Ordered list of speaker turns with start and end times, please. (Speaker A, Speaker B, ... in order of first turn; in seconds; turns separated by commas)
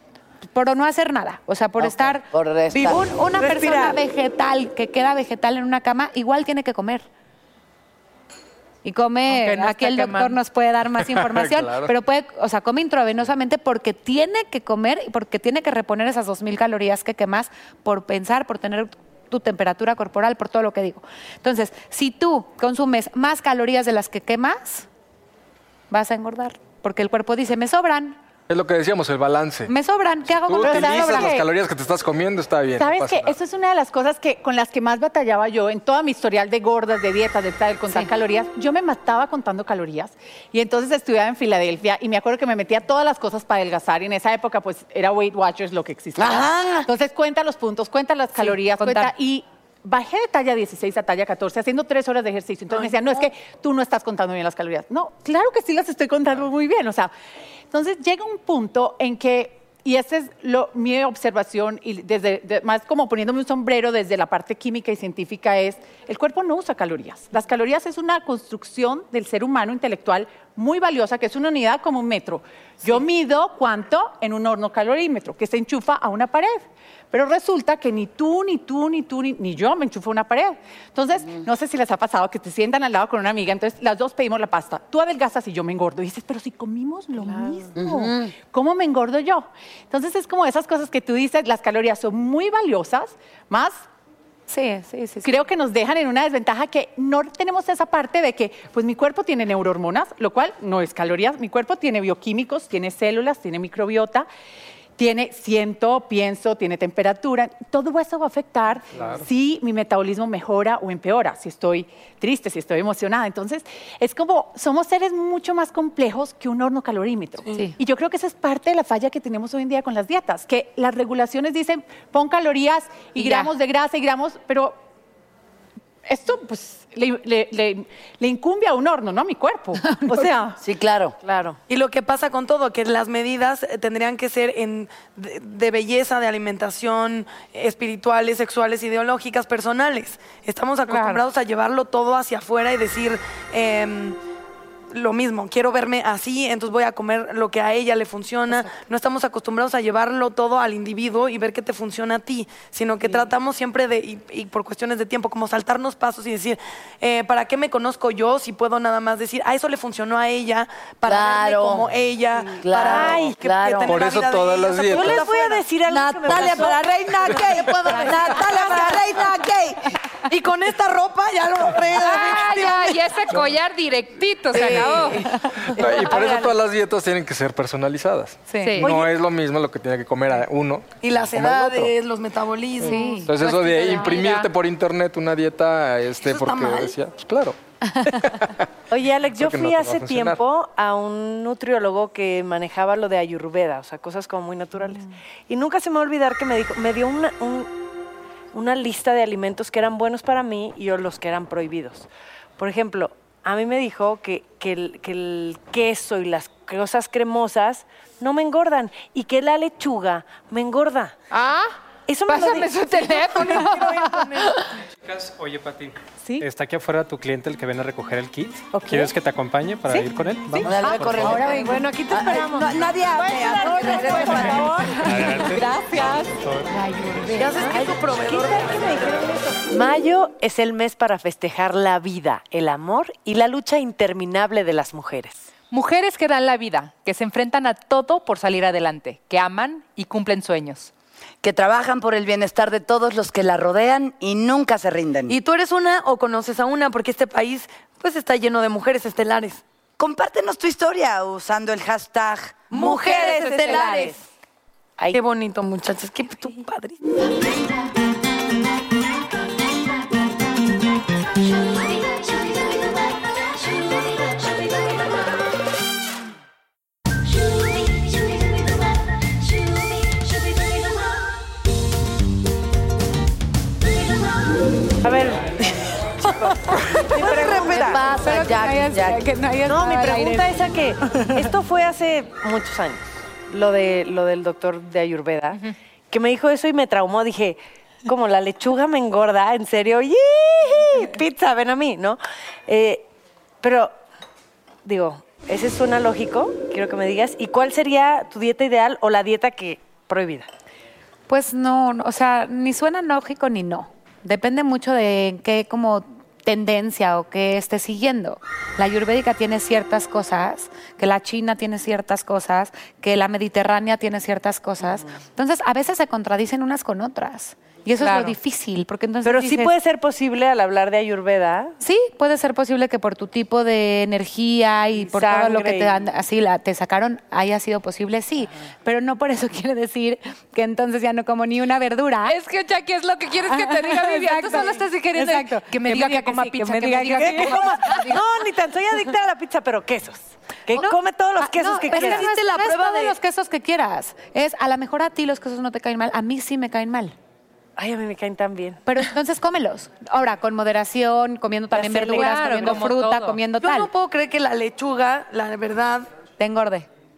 Speaker A: 0.5-7.1, Speaker B: 1.8-3.0, Speaker C: 2.7-4.0, Speaker A: 8.8-24.9, Speaker D: 9.3-10.4, Speaker E: 11.1-11.9, Speaker A: 25.9-28.2, Speaker E: 28.5-29.7, Speaker A: 29.7-31.4, Speaker E: 30.4-33.4, Speaker F: 30.6-31.5, Speaker F: 32.8-57.1, Speaker B: 46.2-46.9, Speaker A: 48.4-49.1, Speaker F: 57.7-93.8, Speaker C: 87.2-87.6, Speaker B: 87.8-88.3, Speaker A: 94.5-95.4, Speaker F: 95.2-104.3, Speaker F: 105.0-124.8, Speaker E: 109.0-109.2, Speaker A: 117.5-117.8, Speaker A: 123.2-123.5, Speaker F: 126.1-130.6, Speaker A: 129.8-130.3, Speaker B: 130.6-131.2, Speaker C: 131.2-131.6, Speaker G: 131.7-144.2, Speaker D: 140.9-141.2, Speaker G: 144.9-165.6, Speaker B: 161.1-161.9, Speaker B: 162.4-164.0, Speaker C: 162.9-163.4, Speaker E: 163.8-165.3, Speaker C: 164.9-168.4, Speaker B: 165.9-169.9, Speaker G: 166.3-166.7, Speaker G: 167.3-169.1, Speaker G: 170.3-173.0, Speaker D: 172.0-176.5, Speaker G: 174.5-175.3, Speaker B: 174.5-175.2, Speaker E: 175.7-181.9, Speaker G: 175.8-176.0, Speaker A: 178.5-178.9, Speaker D: 178.6-179.0, Speaker G: 181.0-183.2, Speaker A: 182.8-184.3, Speaker D: 182.9-184.5, Speaker E: 183.2-188.7, Speaker G: 186.2-186.9, Speaker A: 187.9-188.3, Speaker C: 188.9-197.7, Speaker E: 189.3-190.4, Speaker C: 198.5-211.2, Speaker D: 211.3-211.7, Speaker C: 212.1-214.5, Speaker A: 212.3-214.6, Speaker D: 212.4-213.9, Speaker H: 215.1-221.4, Speaker C: 218.8-219.1, Speaker C: 219.9-226.1, Speaker B: 220.6-224.9, Speaker D: 223.5-224.7, Speaker A: 224.0-224.4, Speaker H: 225.0-226.7, Speaker A: 225.1-226.2, Speaker A: 226.7-227.5, Speaker G: 227.3-229.1, Speaker C: 227.6-235.5, Speaker D: 235.7-240.9, Speaker B: 241.4-245.4, Speaker G: 245.3-249.6, Speaker B: 250.0-254.1, Speaker C: 252.7-254.2, Speaker G: 252.8-254.1, Speaker D: 252.8-254.1, Speaker G: 255.1-257.0, Speaker C: 275.0-275.5, Speaker C: 277.1-278.1, Speaker B: 277.1-279.2, Speaker A: 278.1-281.3, Speaker C: 279.6-293.1, Speaker C: 293.6-293.9, Speaker C: 294.9-300.5, Speaker A: 301.3-319.7, Speaker D: 318.0-318.4, Speaker C: 319.2-321.8, Speaker A: 321.8-332.4, Speaker C: 324.9-326.0, Speaker D: 332.3-338.2, Speaker A: 333.5-338.1, Speaker C: 337.0-342.3, Speaker A: 340.8-347.1, Speaker G: 341.9-343.2, Speaker C: 347.8-348.8, Speaker A: 348.9-353.9, Speaker C: 351.7-352.8, Speaker D: 352.0-353.4, Speaker G: 353.6-356.1, Speaker A: 356.4-356.9